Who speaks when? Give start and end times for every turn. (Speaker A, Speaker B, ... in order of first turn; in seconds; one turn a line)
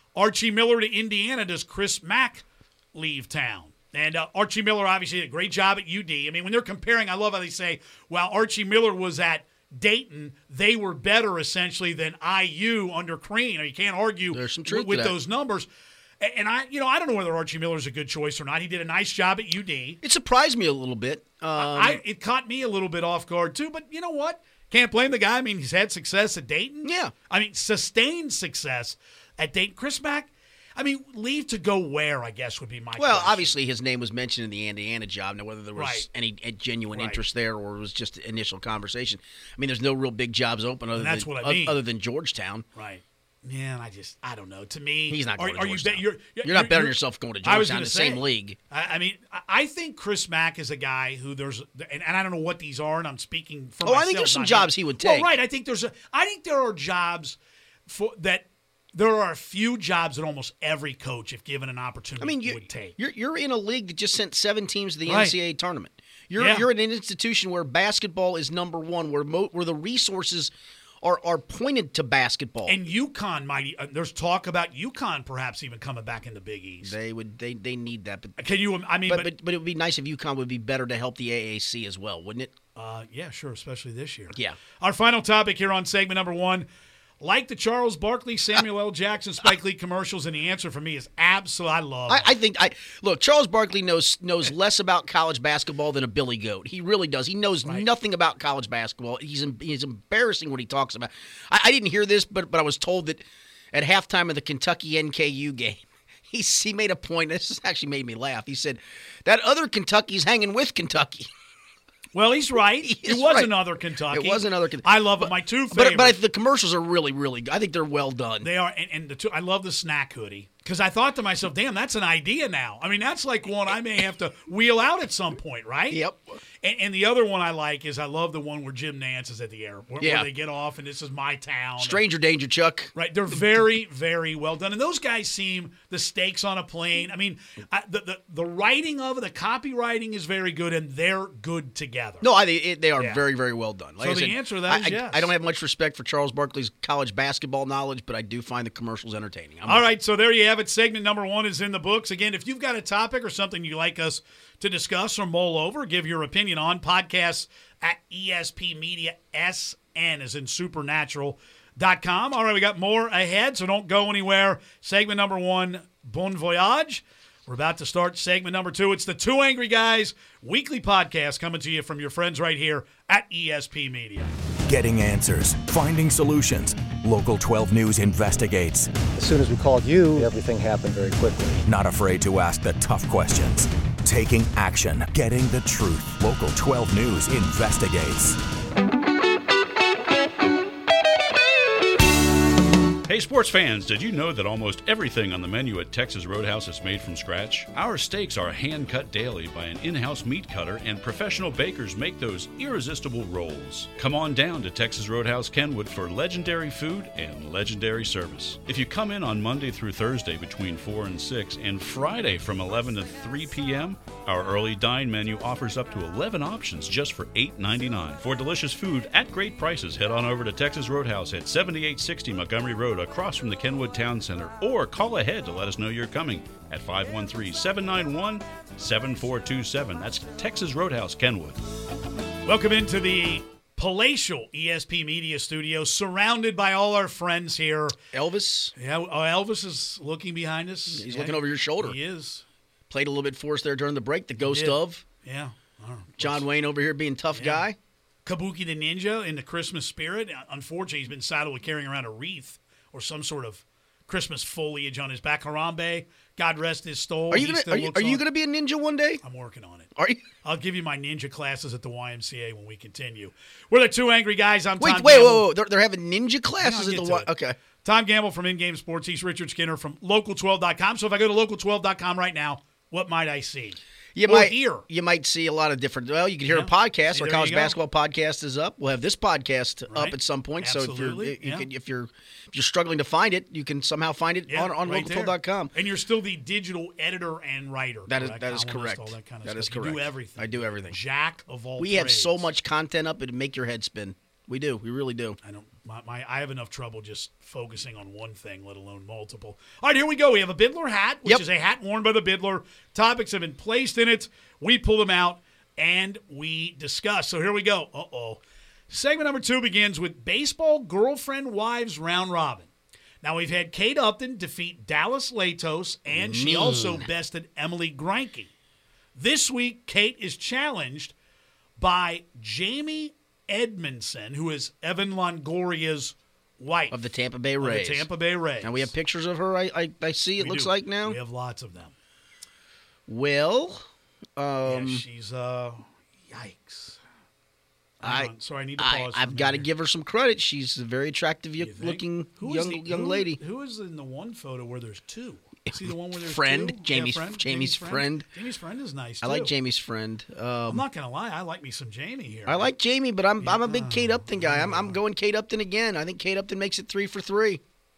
Speaker A: 0.2-15.7
Speaker B: 14.3-15.2
Speaker A: 16.2-20.0
Speaker B: 20.0-22.0
Speaker A: 21.6-33.5
Speaker B: 26.8-27.1
Speaker B: 33.0-42.6
Speaker A: 35.8-36.1
Speaker A: 36.9-37.2
Speaker A: 41.0-41.8
Speaker A: 42.8-63.0
Speaker B: 45.1-48.6
Speaker B: 53.8-55.3
Speaker B: 62.2-72.8
Speaker A: 65.1-65.4
Speaker A: 66.4-66.7
Speaker A: 72.7-77.0
Speaker B: 76.8-78.4
Speaker A: 78.4-79.3
Speaker B: 79.1-82.5
Speaker A: 82.8-86.7
Speaker A: 87.2-92.3
Speaker B: 92.1-111.3
Speaker A: 112.1-116.2
Speaker B: 112.8-113.5
Speaker B: 114.1-118.5
Speaker A: 118.4-126.0
Speaker B: 125.9-126.2
Speaker A: 126.6-132.0
Speaker B: 130.0-130.3
Speaker B: 131.8-133.4
Speaker A: 132.9-142.3
Speaker B: 142.2-149.9
Speaker A: 143.0-143.2
Speaker A: 144.0-145.3
Speaker A: 149.7-174.3
Speaker C: 174.7-179.1
Speaker D: 179.1-181.6
Speaker C: 181.6-188.4
Speaker E: 193.1-231.6
Speaker A: 232.5-238.0
Speaker B: 238.1-238.7
Speaker A: 238.8-242.4
Speaker B: 240.9-242.0
Speaker B: 242.9-245.0
Speaker A: 244.4-246.5
Speaker B: 246.2-247.8
Speaker A: 247.3-247.7
Speaker A: 248.2-258.2
Speaker B: 257.3-259.2
Speaker A: 259.2-259.9
Speaker B: 260.0-260.2
Speaker A: 260.4-265.5
Speaker B: 264.8-267.6
Speaker A: 266.6-267.3
Speaker A: 267.8-274.9
Speaker B: 274.1-285.7
Speaker A: 276.5-277.8
Speaker A: 279.9-281.7
Speaker A: 284.5-292.5
Speaker B: 288.1-291.0
Speaker B: 291.8-295.4
Speaker A: 295.4-312.7
Speaker A: 313.2-318.5
Speaker B: 316.1-317.1
Speaker A: 319.2-321.1
Speaker A: 321.8-327.0
Speaker B: 326.9-328.1
Speaker A: 327.6-328.9
Speaker B: 328.6-331.2
Speaker A: 330.4-331.9
Speaker B: 333.1-335.0
Speaker A: 334.6-337.0
Speaker A: 338.0-339.7
Speaker B: 338.0-343.4
Speaker A: 341.6-349.5
Speaker B: 345.7-348.3
Speaker B: 349.2-350.9
Speaker A: 350.7-352.7
Speaker B: 352.5-357.6
Speaker A: 353.4-355.0